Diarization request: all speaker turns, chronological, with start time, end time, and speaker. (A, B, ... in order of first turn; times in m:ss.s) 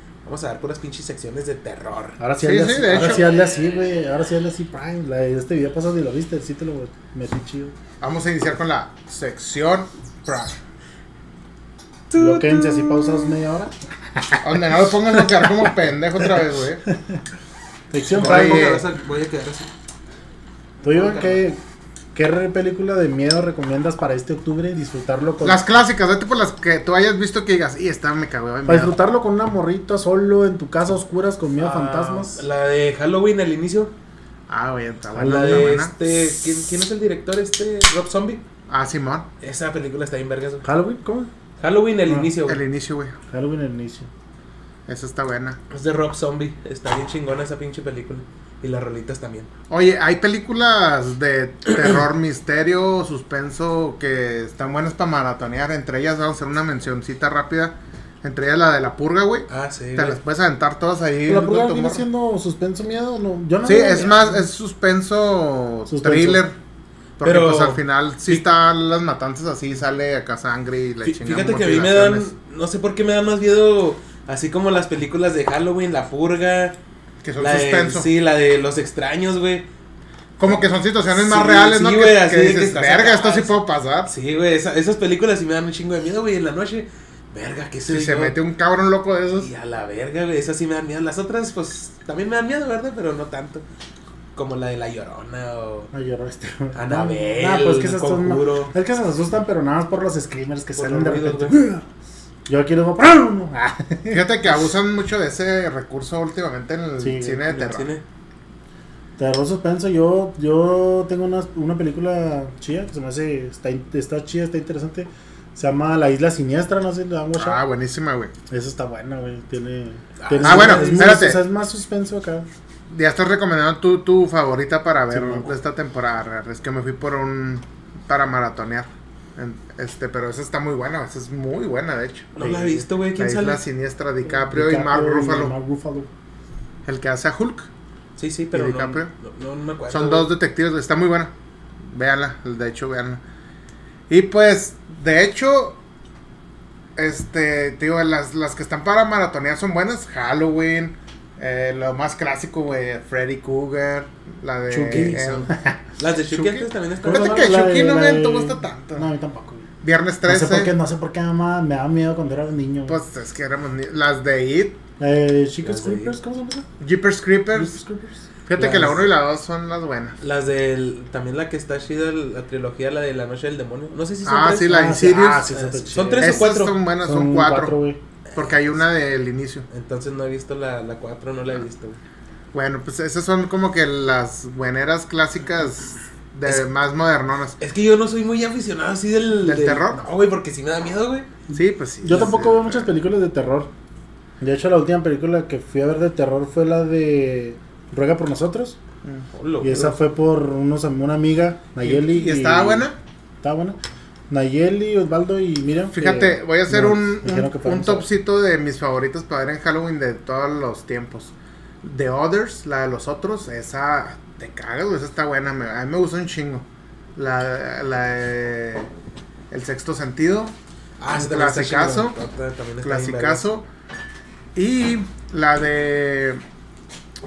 0:00.2-0:02.2 A
0:02.2-0:07.7 B
0:02.4-0:03.2 C
0:02.9-0:03.7 A
0:08.0-0:10.6 C
0:12.1-0:13.4 A
0:12.2-0:14.4 B
0:14.4-0:16.8 C
0:14.9-0:15.6 B
0:16.9-0:17.2 B
0:17.9-0:18.8 B
0:18.1-0:19.7 A
0:18.1-0:18.9 C
0:20.8-0:21.6 B
0:20.8-0:21.4 A
0:22.1-0:25.6 B
0:25.4-0:29.0 C
0:28.7-0:32.4 B
0:31.6-0:33.9 A
0:34.5-0:35.9 C
0:35.1-0:35.8 B
0:35.2-0:38.4 A
0:38.7-0:39.3 C
0:39.4-0:40.6 A
0:40.6-0:41.3 B
0:41.6-0:42.6 A
0:42.4-0:43.1 C
0:43.3-0:44.1 B
0:44.9-0:45.6 C
0:45.7-0:49.5 A
0:49.7-1:02.0 C
0:59.5-1:00.2 A
1:01.3-1:04.4 B
1:03.6-1:06.6 C
1:05.9-1:06.4 B
1:07.2-1:12.3 C
1:07.2-1:08.4 A
1:11.0-1:16.8 A
1:17.2-1:18.1 C
1:17.4-1:19.7 A
1:20.4-1:24.1 C
1:21.1-1:28.4 A
1:27.9-1:29.5 C
1:29.4-1:33.6 A
1:34.4-1:35.9 A
1:35.9-1:41.8 B
1:36.8-1:38.7 A
1:40.8-1:41.5 A
1:42.5-1:44.2 B
1:44.1-1:47.9 C
1:47.0-1:47.6 B
1:47.5-1:48.0 A
1:49.2-1:57.6 B
1:57.4-1:58.3 C
1:58.5-2:02.5 B
2:00.2-2:01.3 A
2:00.4-2:01.4 C
2:02.9-2:12.4 C
2:05.1-2:05.5 B
2:12.4-2:13.6 A
2:12.4-2:12.8 B
2:13.2-2:15.6 C
2:14.2-2:16.1 B
2:16.9-2:17.7 C
2:18.2-2:20.3 A
2:18.5-2:19.1 C
2:19.9-2:23.2 C
2:24.1-2:25.8 C
2:27.0-2:35.5 C
2:34.7-2:35.7 B
2:34.9-2:37.5 A
2:36.2-2:39.1 C
2:37.0-2:39.7 B
2:39.8-2:40.7 C
2:40.2-2:43.0 B
2:42.9-2:44.8 C
2:45.0-2:46.7 B
2:45.6-2:46.1 A
2:46.8-2:47.8 C
2:47.6-2:49.0 B
2:48.5-2:50.2 C
2:48.6-2:48.9 A
2:50.2-2:54.9 A
2:54.2-2:55.5 C
2:54.7-2:56.4 B
2:55.5-2:56.8 A
2:56.2-2:57.8 C
2:57.0-2:58.0 B
2:58.3-2:58.7 A
2:58.4-2:59.7 C
2:59.7-3:02.0 A
3:02.5-3:07.6 C
3:07.6-3:11.3 A
3:09.4-3:10.0 C
3:11.5-3:12.9 C
3:12.0-3:13.7 B
3:14.4-3:18.8 B
3:19.3-3:20.0 A
3:19.6-3:22.9 B
3:21.8-3:23.0 C
3:23.4-3:23.8 B
3:24.3-3:28.1 B
3:25.9-3:38.9 C
3:39.5-3:40.6 C
3:41.0-3:43.4 A
3:41.1-3:42.2 C
3:42.8-3:43.7 C
3:44.6-3:46.4 C